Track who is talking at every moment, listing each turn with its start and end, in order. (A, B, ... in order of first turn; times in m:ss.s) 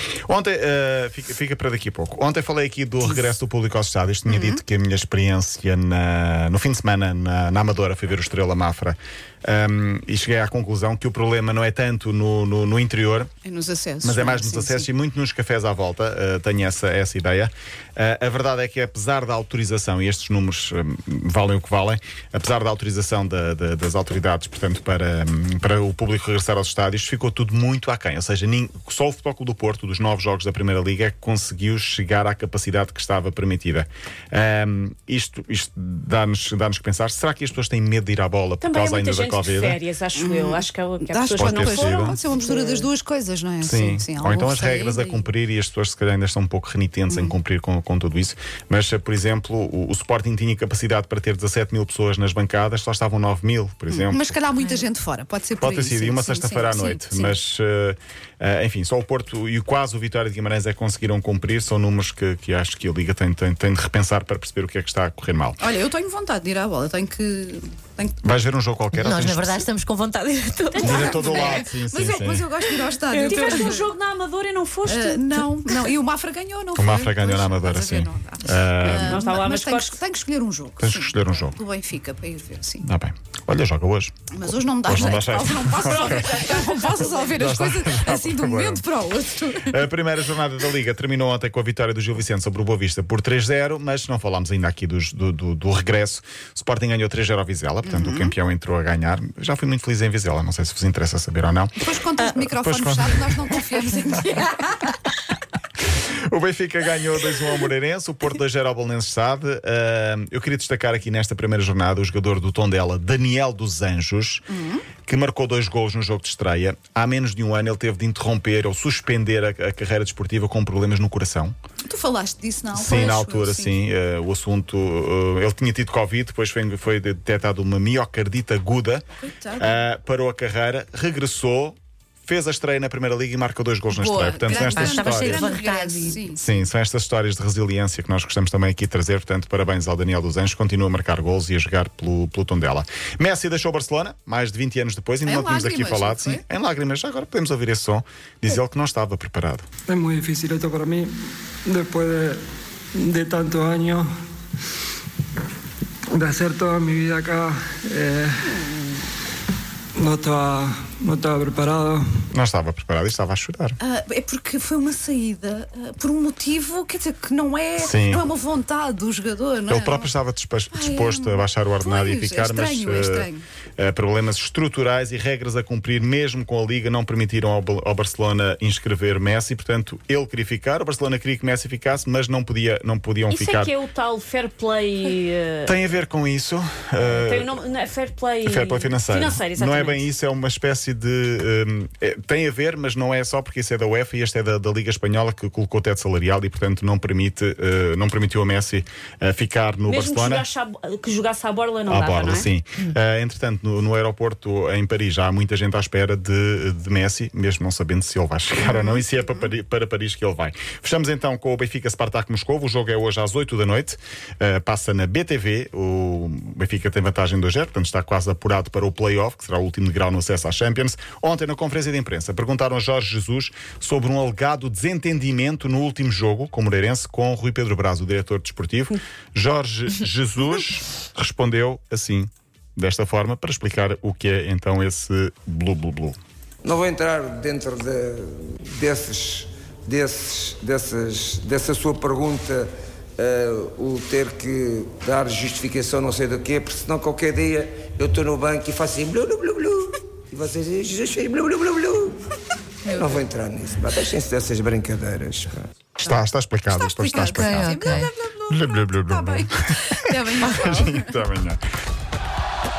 0:00.3-0:13.3 A
0:04.3-0:04.6 B
0:13.4-0:14.9 B
0:14.0-0:39.8 A
0:38.6-0:42.9 C
0:40.2-0:45.2 B
0:41.4-0:42.2 A
0:43.6-0:54.3 A
0:47.1-0:47.4 B
0:53.9-0:57.4 B
0:55.6-1:05.6 A
1:05.6-1:08.4 B
1:08.2-1:09.6 A
1:08.9-1:11.3 D
1:10.7-1:11.6 C
1:10.8-1:13.9 B
1:10.8-1:12.5 A
1:13.1-1:13.8 D
1:13.2-1:15.2 C
1:14.9-1:22.8 B
1:16.8-1:19.2 A
1:18.8-1:20.0 C
1:20.8-1:21.6 A
1:22.8-1:24.3 A
1:24.3-1:29.8 B
1:24.8-1:26.5 A
1:25.8-1:27.3 C
1:27.3-1:28.8 A
1:29.6-1:43.9 A
1:37.8-1:38.3 B
1:41.8-1:44.9 B
1:45.9-1:54.4 A
1:54.5-1:54.9 B
1:55.0-2:01.6 A
2:01.9-2:03.8 B
2:02.7-2:09.0 A
2:09.2-2:09.8 B
2:09.6-2:15.6 A
2:13.9-2:16.4 B
2:14.5-2:16.3 D
2:16.3-2:29.7 A
2:25.2-2:26.4 B
2:29.9-2:31.1 E
2:31.7-2:32.4 E
2:33.0-2:34.1 E
2:36.2-2:38.3 E
2:40.0-2:42.0 E
2:42.3-2:43.8 A
2:43.8-2:50.1 B
2:47.8-2:48.2 A
2:49.7-3:03.7 A
2:50.7-2:53.4 B
3:03.3-3:05.8 C
3:05.7-3:07.5 A
3:07.0-3:10.1 C
3:08.4-3:20.5 A
3:19.9-3:22.5 C
3:21.9-3:56.2 A
3:56.6-4:12.2 F
4:12.8-4:13.2 B
4:12.9-4:15.7 F
4:16.0-4:21.2 B
4:16.0-4:21.6 A
4:17.1-4:18.1 D